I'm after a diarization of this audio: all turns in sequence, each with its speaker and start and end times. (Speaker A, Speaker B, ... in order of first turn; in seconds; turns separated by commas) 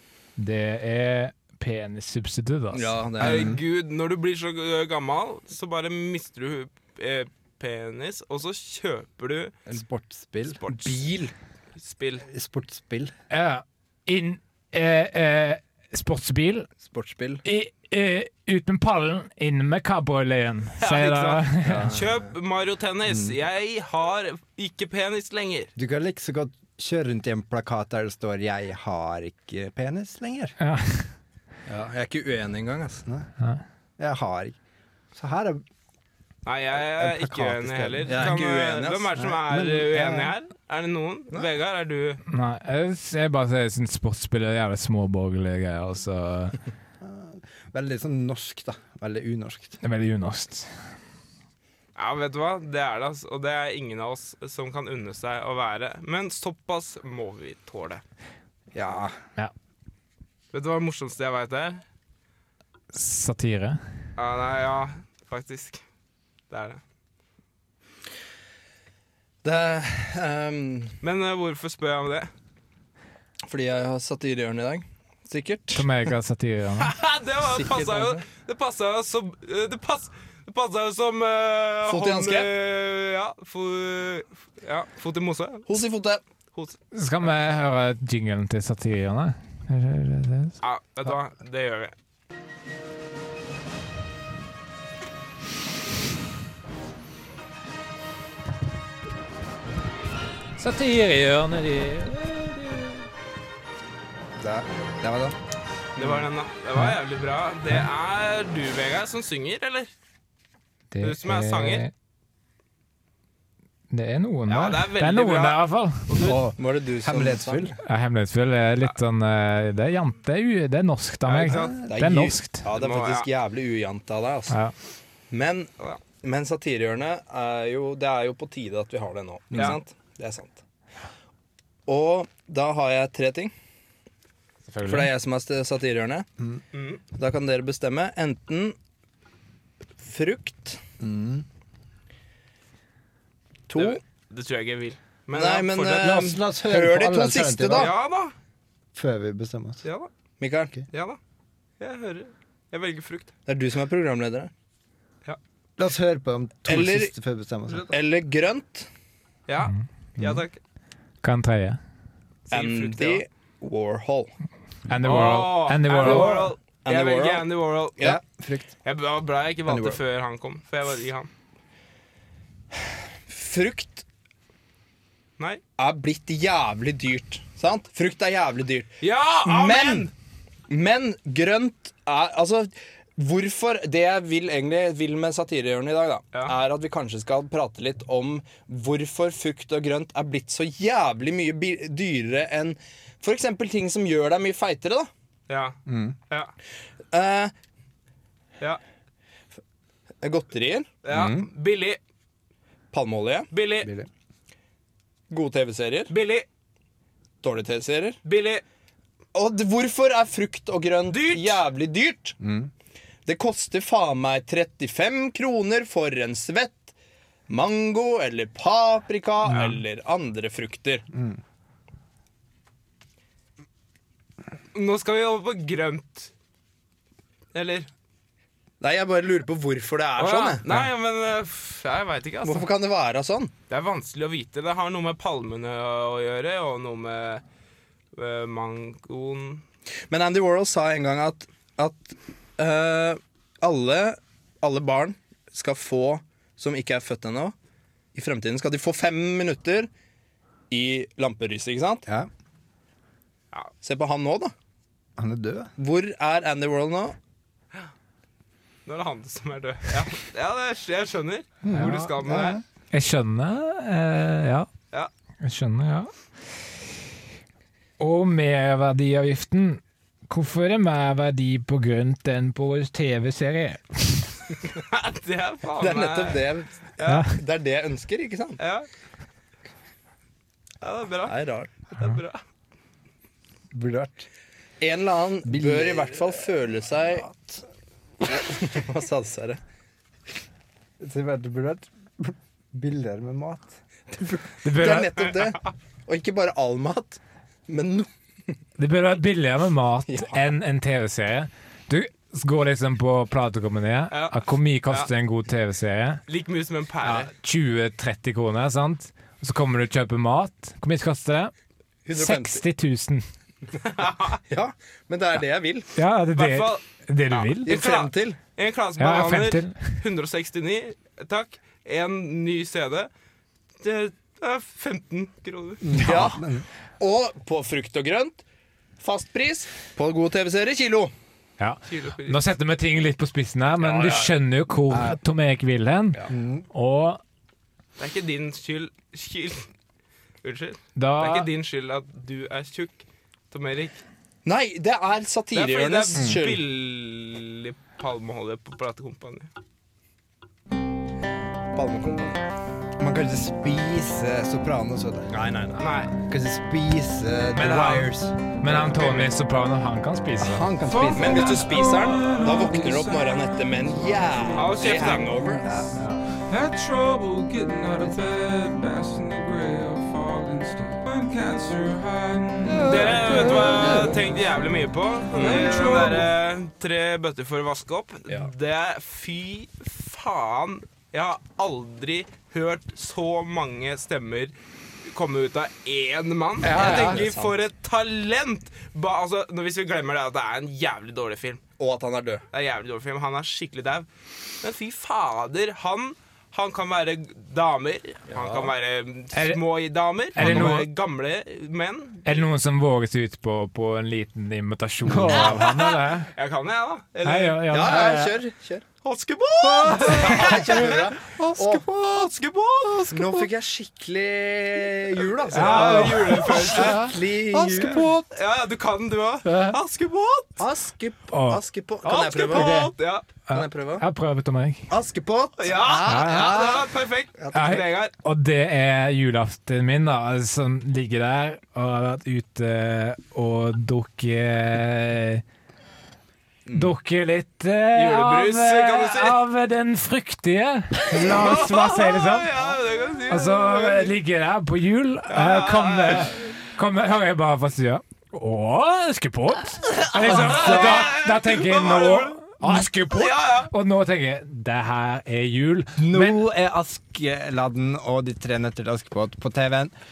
Speaker A: 0.4-3.0, Speaker B: 2.7-3.5, Speaker C: 3.2-9.6, Speaker D: 3.2-3.6, Speaker D: 9.7-10.6, Speaker C: 10.5-11.0, Speaker B: 10.7-11.3, Speaker C: 11.8-12.2, Speaker D: 12.3-13.1, Speaker A: 13.3-16.7, Speaker B: 16.8-17.4, Speaker A: 17.4-21.9, Speaker C: 20.8-25.7, Speaker B: 21.6-22.2, Speaker D: 23.1-23.4, Speaker D: 25.8-30.6, Speaker A: 30.6-31.1, Speaker B: 31.7-33.0, Speaker D: 34.0-34.6, Speaker D: 35.1-35.6, Speaker C: 36.5-42.2, Speaker D: 36.9-38.4, Speaker B: 38.1-39.1, Speaker D: 39.2-40.3, Speaker A: 42.3-46.6, Speaker D: 47.0-49.8, Speaker A: 49.8-50.7, Speaker C: 52.0-58.0, Speaker D: 58.7-59.1, Speaker C: 60.5-61.8, Speaker A: 62.9-63.8, Speaker C: 64.2-65.8, Speaker C: 66.5-66.8, Speaker B: 69.4-71.0, Speaker C: 71.0-72.3, Speaker B: 73.5-75.9, Speaker A: 75.7-76.9, Speaker C: 76.8-85.7, Speaker B: 77.4-78.2, Speaker B: 81.9-82.5, Speaker B: 85.7-86.2, Speaker A: 86.9-90.6, Speaker C: 90.6-91.9, Speaker A: 100.6-103.1, Speaker D: 104.4-105.3, Speaker C: 106.0-109.9, Speaker A: 110.9-111.9, Speaker C: 111.0-111.9, Speaker A: 113.9-116.1, Speaker C: 114.5-116.4, Speaker D: 116.2-117.8, Speaker B: 116.2-117.8, Speaker A: 117.8-122.6, Speaker C: 121.3-121.7, Speaker B: 121.4-124.6, Speaker D: 121.5-121.9, Speaker C: 122.7-123.3, Speaker B: 125.3-130.6, Speaker D: 129.5-129.8, Speaker B: 131.9-133.5, Speaker A: 134.7-135.1, Speaker B: 134.9-136.3, Speaker C: 136.7-137.0, Speaker B: 137.2-138.8, Speaker B: 140.0-140.8, Speaker D: 141.0-141.4, Speaker B: 143.7-144.0, Speaker C: 143.8-146.1, Speaker B: 145.3-147.9, Speaker D: 145.9-147.9, Speaker C: 147.7-148.3, Speaker D: 148.9-149.8, Speaker B: 150.4-150.7, Speaker C: 150.9-151.2, Speaker C: 151.8-153.3, Speaker B: 153.5-154.5, Speaker D: 155.8-157.9, Speaker B: 156.7-157.1, Speaker B: 157.9-158.9, Speaker C: 159.5-160.6, Speaker A: 161.2-161.8, Speaker C: 162.5-163.2, Speaker B: 162.5-164.3, Speaker A: 164.9-166.5, Speaker C: 165.0-168.2, Speaker D: 166.1-166.4, Speaker B: 166.1-166.3, Speaker B: 166.8-168.2, Speaker D: 168.0-168.8, Speaker C: 168.8-171.3, Speaker B: 173.3-174.1, Speaker B: 175.8-178.9, Speaker C: 179.0-180.1, Speaker B: 179.4-180.1, Speaker B: 180.7-195.1, Speaker C: 195.5-195.8, Speaker D: 195.9-196.2, Speaker B: 197.1-197.5, Speaker B: 200.2-200.9, Speaker C: 201.0-202.0, Speaker D: 201.1-201.5, Speaker B: 202.9-203.5, Speaker C: 203.5-203.9, Speaker D: 203.8-204.1, Speaker B: 205.3-206.1, Speaker C: 206.1-206.5, Speaker B: 207.4-208.2, Speaker C: 208.2-208.6, Speaker B: 209.3-212.4, Speaker C: 211.1-211.6, Speaker D: 212.4-212.7, Speaker B: 213.3-216.9, Speaker B: 217.5-221.1, Speaker C: 219.5-219.7, Speaker D: 221.1-221.4, Speaker C: 224.7-226.3, Speaker C: 227.5-227.9, Speaker B: 228.8-230.6, Speaker C: 230.2-232.7, Speaker B: 232.4-233.5, Speaker C: 233.7-237.4, Speaker C: 238.2-239.6, Speaker B: 240.1-247.6, Speaker B: 248.1-249.9, Speaker B: 250.7-252.1, Speaker B: 253.8-254.5, Speaker D: 255.2-255.7, Speaker B: 255.8-257.2, Speaker C: 258.9-262.6, Speaker D: 261.6-262.6, Speaker A: 261.7-262.0, Speaker A: 262.9-264.7, Speaker A: 265.4-266.1, Speaker A: 268.0-274.4, Speaker C: 274.8-277.3, Speaker B: 275.8-278.6, Speaker A: 277.0-277.3, Speaker C: 278.6-278.9, Speaker C: 280.8-282.4, Speaker B: 281.3-281.7, Speaker D: 283.7-284.3, Speaker B: 284.8-287.4, Speaker D: 285.4-286.3, Speaker D: 287.2-287.6, Speaker B: 288.3-289.6, Speaker D: 291.0-293.8, Speaker B: 294.1-298.1, Speaker A: 294.6-295.3, Speaker A: 298.8-306.2, Speaker B: 300.1-300.5, Speaker C: 304.1-305.1, Speaker C: 306.3-307.3, Speaker A: 307.0-311.5, Speaker B: 312.1-312.6, Speaker A: 312.1-313.2, Speaker C: 314.0-314.4, Speaker B: 314.5-315.9, Speaker A: 316.0-317.7, Speaker C: 316.4-323.1, Speaker B: 317.7-318.4, Speaker A: 319.0-320.0, Speaker C: 323.8-325.8, Speaker D: 325.8-326.7, Speaker B: 326.0-326.4, Speaker B: 327.0-328.4, Speaker B: 329.0-331.1, Speaker A: 331.6-336.2, Speaker C: 331.9-332.4, Speaker B: 333.9-334.3, Speaker D: 336.3-336.7, Speaker A: 336.7-337.2, Speaker C: 338.0-339.7, Speaker C: 340.4-344.0, Speaker A: 341.0-341.5, Speaker B: 344.4-346.6, Speaker C: 345.5-349.5, Speaker D: 346.1-346.4, Speaker B: 351.7-352.4, Speaker D: 353.0-355.3, Speaker B: 355.3-355.8, Speaker C: 355.8-356.1, Speaker D: 356.2-358.4, Speaker C: 357.6-358.1, Speaker A: 358.6-360.7, Speaker C: 358.6-359.3, Speaker D: 360.4-361.7, Speaker E: 360.8-365.1, Speaker B: 361.1-365.9, Speaker C: 364.6-365.5, Speaker D: 365.6-366.0, Speaker E: 366.5-374.2, Speaker B: 372.8-374.1, Speaker C: 372.8-384.5, Speaker E: 375.3-376.3, Speaker B: 375.4-375.7, Speaker C: 385.1-391.6, Speaker B: 386.6-387.6, Speaker D: 386.7-387.2, Speaker B: 391.8-392.4, Speaker C: 392.5-394.1, Speaker C: 394.6-402.3, Speaker B: 398.3-398.7, Speaker A: 399.3-399.6, Speaker A: 400.4-400.9, Speaker A: 402.2-406.3, Speaker D: 405.1-405.5, Speaker C: 405.4-408.1, Speaker A: 407.2-408.3, Speaker B: 407.7-408.9, Speaker C: 409.0-411.1, Speaker B: 409.8-412.4, Speaker D: 409.8-412.3, Speaker B: 413.0-418.0, Speaker C: 415.5-417.0, Speaker A: 415.5-417.1, Speaker D: 416.8-418.3, Speaker C: 418.3-420.6, Speaker A: 419.4-419.8, Speaker B: 420.6-422.9, Speaker A: 421.3-421.6, Speaker C: 422.0-423.3, Speaker A: 423.5-424.9, Speaker B: 423.5-424.1, Speaker B: 424.9-426.8, Speaker C: 425.6-428.1, Speaker A: 426.1-426.6, Speaker B: 427.4-427.8, Speaker A: 427.5-435.4, Speaker B: 436.7-436.9, Speaker A: 436.7-442.5, Speaker C: 437.9-439.4, Speaker C: 441.2-444.1, Speaker A: 443.3-456.4, Speaker C: 445.3-446.4, Speaker C: 450.1-453.7, Speaker D: 450.2-451.1, Speaker D: 456.0-459.9